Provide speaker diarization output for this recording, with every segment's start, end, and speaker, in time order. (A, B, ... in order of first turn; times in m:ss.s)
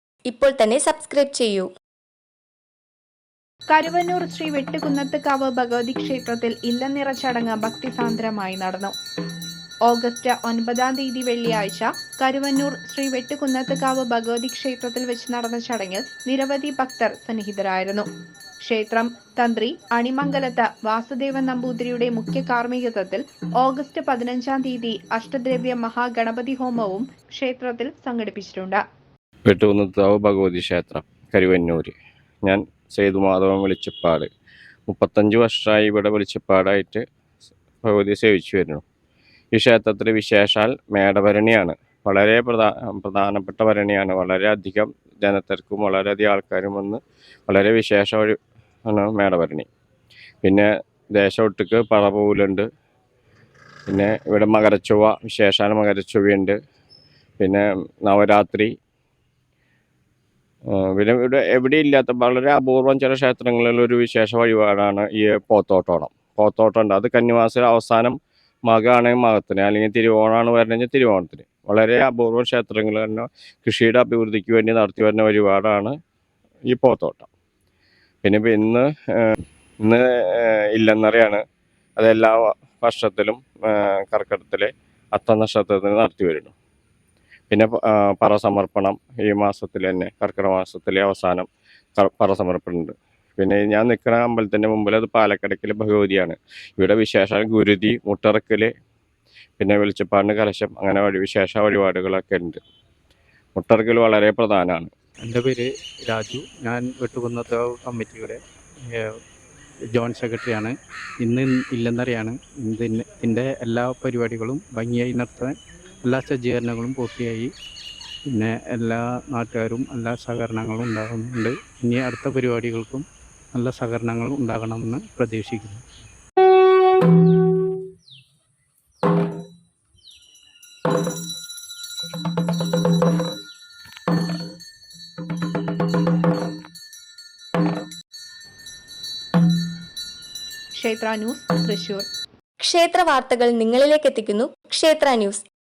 0:00.3-0:01.7 A
0:03.7-0:08.9 B
0:09.9-0:18.1 B
0:18.6-0:28.8 B
0:29.5-0:31.9 C
0:32.5-0:34.3 C
0:34.9-0:37.0 C
0:37.8-0:38.8 C
0:39.5-0:48.4 C
0:48.9-0:49.7 C
0:50.4-0:52.7 C
0:53.9-0:56.6 C
0:57.4-0:58.7 C
1:00.7-1:08.2 C
1:08.7-1:15.9 C
1:16.7-1:17.3 C
1:18.2-1:21.4 C
1:22.0-1:26.5 C
1:27.5-1:38.7 C
1:39.6-1:42.6 C
1:43.6-1:44.9 C
1:45.2-1:49.1 D
1:49.9-1:57.5 D
1:58.3-2:05.8 D
2:20.8-2:22.1 B
2:22.6-2:25.4 A